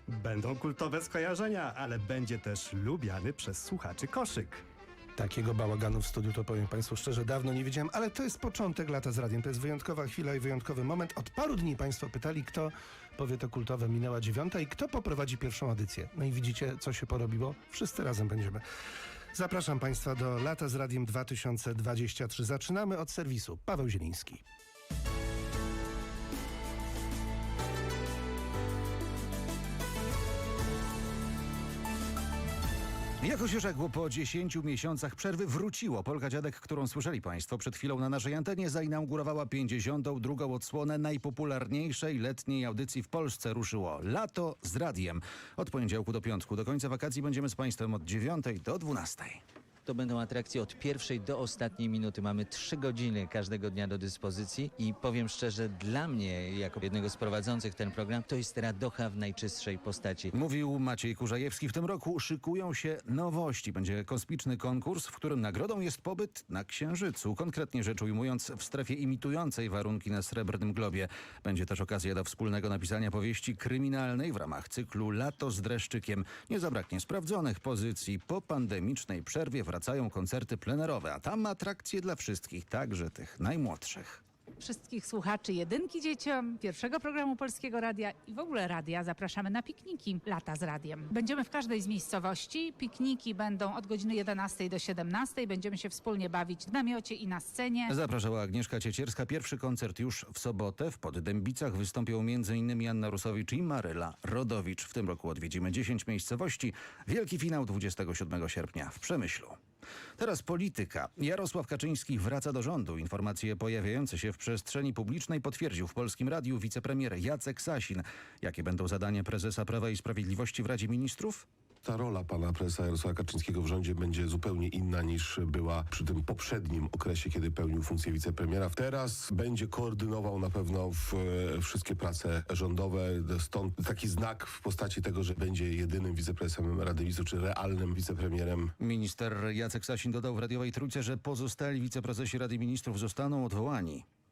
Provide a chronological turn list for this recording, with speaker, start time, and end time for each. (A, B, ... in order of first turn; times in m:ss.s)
0:00.1-0:04.6 A
0:05.2-0:18.6 B
0:19.3-0:24.4 B
0:33.2-0:49.4 C
0:49.9-1:00.3 D
1:00.3-1:24.2 C
1:24.6-1:38.0 E
1:37.9-1:49.6 C
1:50.2-2:01.5 C
2:01.8-2:18.7 F
2:18.8-2:24.0 C